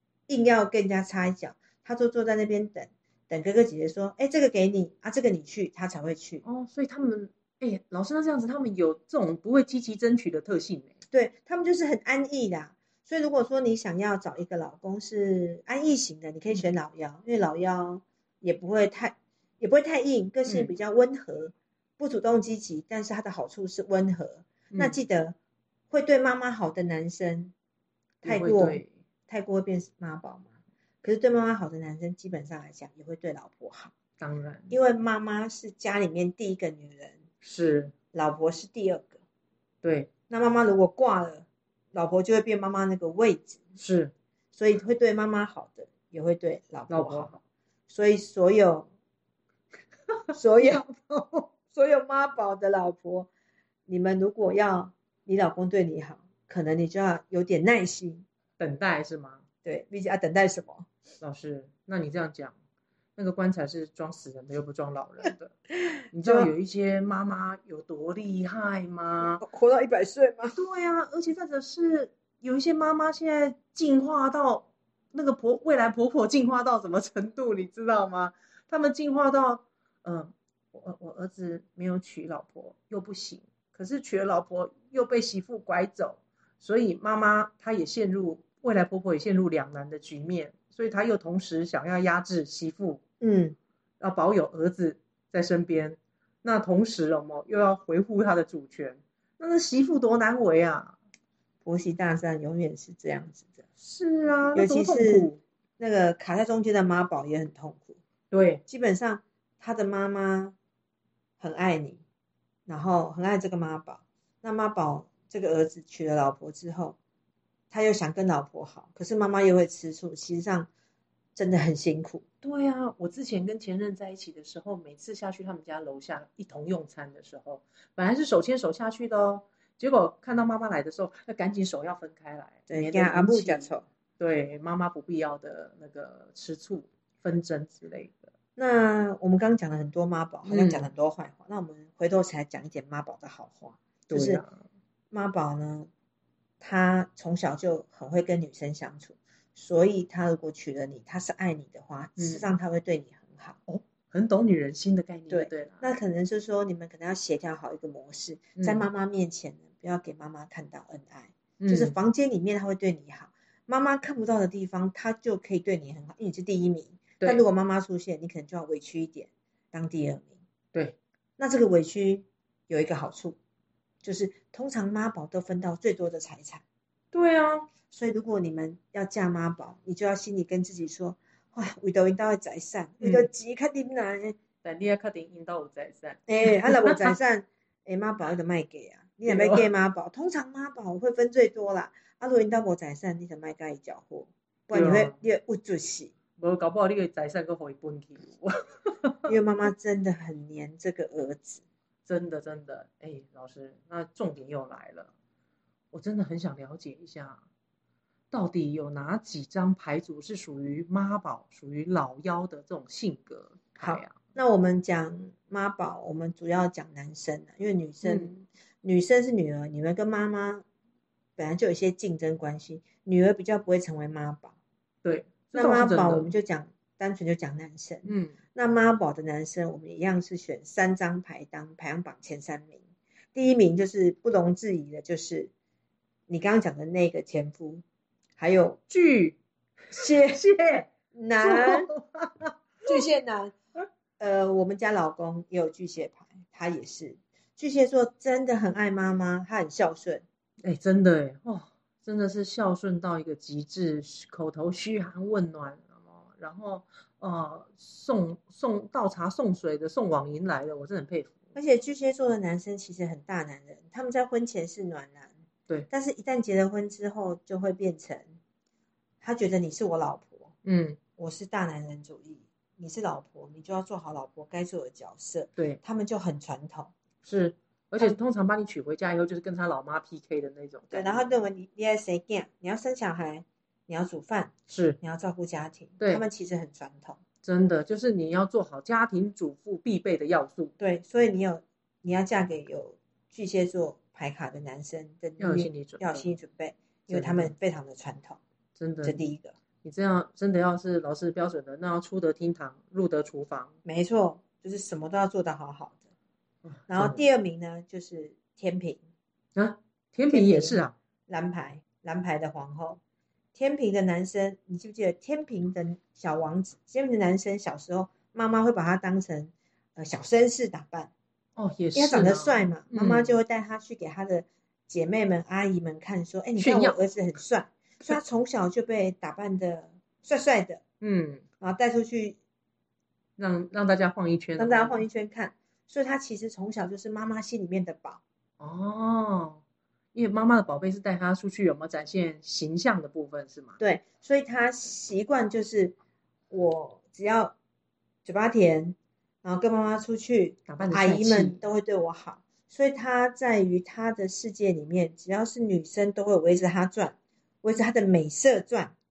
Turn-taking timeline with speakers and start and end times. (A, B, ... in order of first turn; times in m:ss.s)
0:00.3-0:06.4 A
0:06.4-0:10.9 B
0:11.1-0:25.4 A
0:20.5-0:20.7 B
0:24.7-0:25.0 B
0:25.9-0:27.5 A
0:28.2-0:28.9 B
0:28.2-0:30.5 A
0:31.0-0:33.9 A
0:34.2-0:34.7 B
0:34.7-0:37.2 A
0:37.4-0:37.9 B
0:38.1-0:39.2 A
0:39.8-0:40.1 B
0:40.3-0:43.6 A
0:43.8-0:44.1 B
0:44.5-0:47.3 A
0:46.9-0:47.4 B
0:47.9-0:48.9 A
0:50.3-0:51.5 B
0:50.3-0:50.8 A
0:51.7-0:53.3 A
0:53.9-0:58.2 A
0:58.6-0:59.4 B
0:59.6-1:00.9 A
1:01.2-1:02.5 B
1:03.2-1:05.6 B
1:06.1-1:09.4 B
1:06.2-1:06.5 A
1:09.4-1:10.6 A
1:10.5-1:33.0 B
1:33.2-1:33.6 A
1:34.0-1:41.0 B
1:41.6-1:43.6 A
1:43.8-1:45.4 B
1:44.5-1:48.0 A
1:48.3-1:48.6 B
1:48.7-1:50.5 A
1:51.4-1:52.0 A
1:52.7-1:57.0 A
1:57.7-2:00.7 A
2:01.4-2:02.2 A
2:02.4-2:18.3 B
2:12.7-2:13.8 A
2:18.6-2:24.4 A
2:20.4-2:20.9 B
2:24.1-2:24.6 B
2:25.1-2:25.9 A
2:26.6-2:33.6 A
2:32.2-2:32.4 B
2:33.7-2:35.9 B
2:35.3-2:50.4 A
2:38.6-2:38.8 B
2:41.6-2:41.9 B
2:51.4-2:53.4 A
2:54.0-2:56.6 A
2:57.1-2:57.7 B
2:57.9-3:04.4 A
3:03.0-3:03.3 B
3:04.6-3:07.2 B
3:06.3-3:16.1 A
3:09.3-3:09.7 B
3:14.7-3:15.2 B
3:16.4-3:19.3 B
3:19.3-3:21.6 A
3:22.0-3:25.1 B
3:25.9-3:27.4 B
3:28.3-3:34.2 B
3:33.8-3:40.6 A
3:38.0-3:38.3 B
3:41.4-3:44.6 A
3:45.0-3:46.3 B
3:45.5-3:52.8 A
3:48.0-3:48.4 B
3:53.3-3:55.5 A
3:56.3-3:57.8 A
3:58.4-3:58.8 A
3:58.9-3:59.4 B
3:59.9-4:03.0 B
3:59.9-4:00.4 A
4:01.1-4:01.9 A
4:02.8-4:03.5 A
4:04.2-4:10.2 A
4:10.6-4:21.4 B
4:21.5-4:25.3 A
4:25.9-4:28.3 A
4:29.2-4:30.5 A
4:30.6-4:31.0 B
4:31.2-4:36.9 A
4:37.2-4:41.2 B
4:40.9-4:47.2 A
4:44.7-4:45.0 B
4:47.4-4:50.7 B
4:50.8-4:58.4 A
4:55.4-4:56.2 B
4:57.1-4:57.5 B
4:58.8-4:59.2 B
4:59.0-4:59.6 A
4:59.8-5:03.7 B
5:03.8-5:06.0 A
5:06.6-5:07.2 B
5:06.9-5:09.0 A
5:09.5-5:10.9 B
5:10.3-5:13.0 A
5:13.5-5:21.1 A
5:21.6-5:23.4 B
5:21.9-5:30.8 A
5:26.6-5:27.0 B
5:31.0-5:31.4 B
5:31.6-5:32.4 A
5:33.4-5:35.0 B
5:34.6-5:38.2 A
5:38.6-5:39.6 B
5:40.1-5:43.8 B
5:43.8-5:46.0 A
5:46.5-5:47.5 A
5:48.2-5:58.9 A
5:50.7-5:51.6 B